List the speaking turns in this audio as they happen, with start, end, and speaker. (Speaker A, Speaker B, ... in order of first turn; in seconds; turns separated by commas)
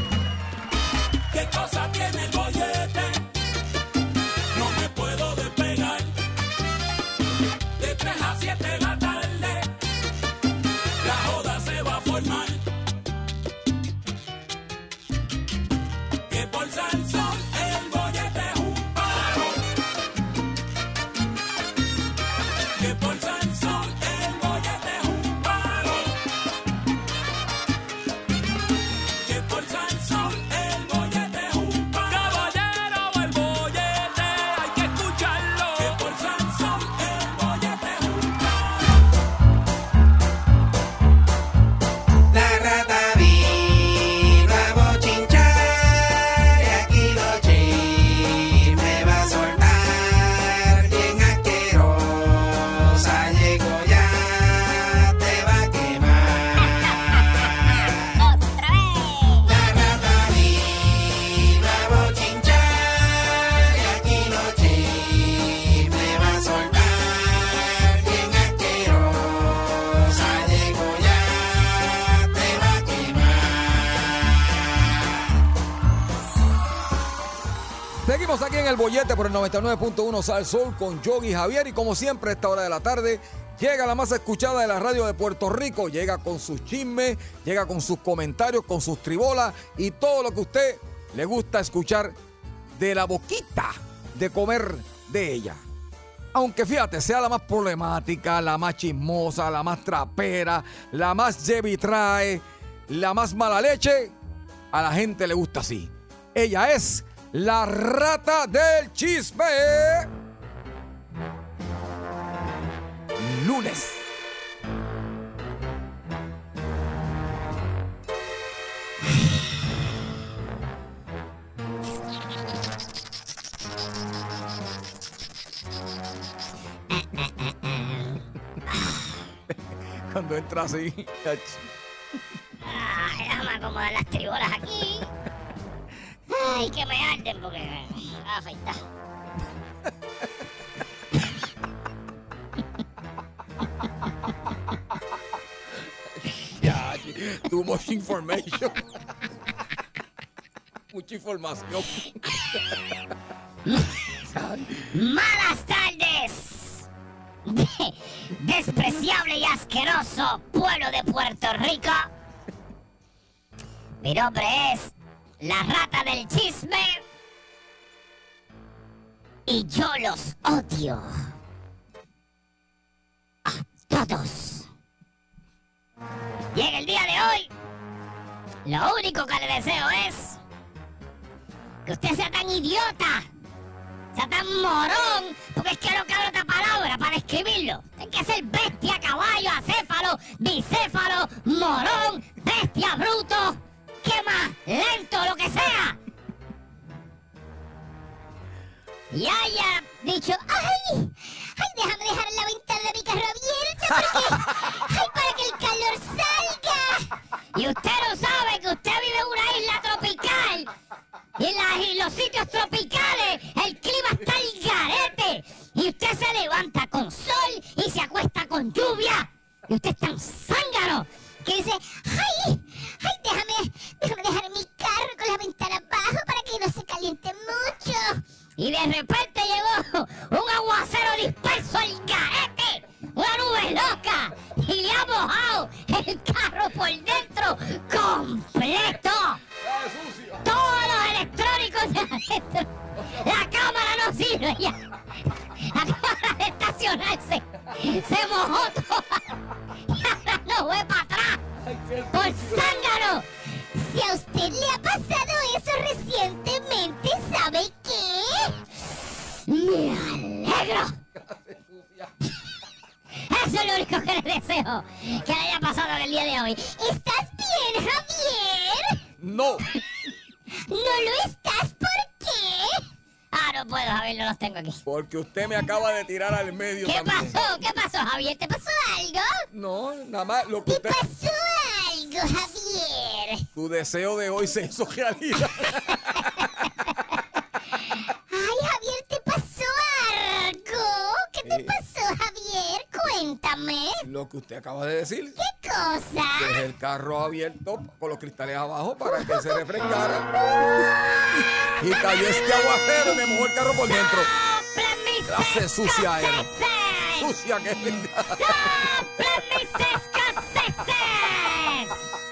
Speaker A: 1.4-2.9, Speaker A: 4.6-6.0, Speaker A: 11.1-12.5, Speaker A: 16.7-18.2, Speaker A: 23.4-24.3, Speaker A: 29.4-31.8, Speaker A: 36.0-37.3, Speaker B: 42.3-58.1, Speaker C: 58.3-59.5, Speaker B: 59.4-75.2, Speaker D: 78.0-92.2, Speaker D: 92.7-95.6, Speaker D: 96.3-104.1, Speaker D: 104.7-110.1, Speaker D: 113.2-114.0, Speaker C: 126.9-129.2, Speaker D: 130.1-131.7, Speaker C: 132.6-135.1, Speaker C: 136.3-138.8, Speaker D: 146.6-148.8, Speaker D: 150.9-152.1, Speaker C: 153.6-154.0, Speaker D: 154.3-154.9, Speaker C: 154.9-156.9, Speaker C: 157.4-162.1, Speaker C: 164.0-167.0, Speaker C: 169.5-171.1, Speaker C: 173.4-174.7, Speaker C: 176.5-177.5, Speaker C: 178.6-180.4, Speaker C: 181.8-183.3, Speaker C: 184.1-196.0, Speaker C: 199.1-210.7, Speaker D: 204.0-204.4, Speaker C: 211.4-239.4, Speaker D: 239.6-240.5, Speaker C: 240.4-249.3, Speaker C: 249.9-251.4, Speaker D: 251.6-252.8, Speaker C: 252.1-261.0, Speaker D: 261.1-262.1, Speaker C: 263.2-269.0, Speaker D: 269.2-269.6, Speaker C: 270.7-274.8, Speaker D: 274.9-277.4, Speaker C: 276.8-279.4, Speaker D: 279.5-281.0, Speaker C: 280.7-283.4, Speaker D: 283.5-286.4, Speaker C: 287.7-294.0, Speaker D: 291.4-291.7, Speaker D: 294.0-295.4, Speaker C: 295.4-296.6, Speaker D: 296.4-300.3, Speaker C: 299.2-299.6, Speaker C: 300.6-301.7, Speaker D: 301.8-304.3, Speaker C: 303.9-307.3, Speaker D: 305.3-306.5, Speaker D: 307.2-308.7, Speaker C: 308.3-311.9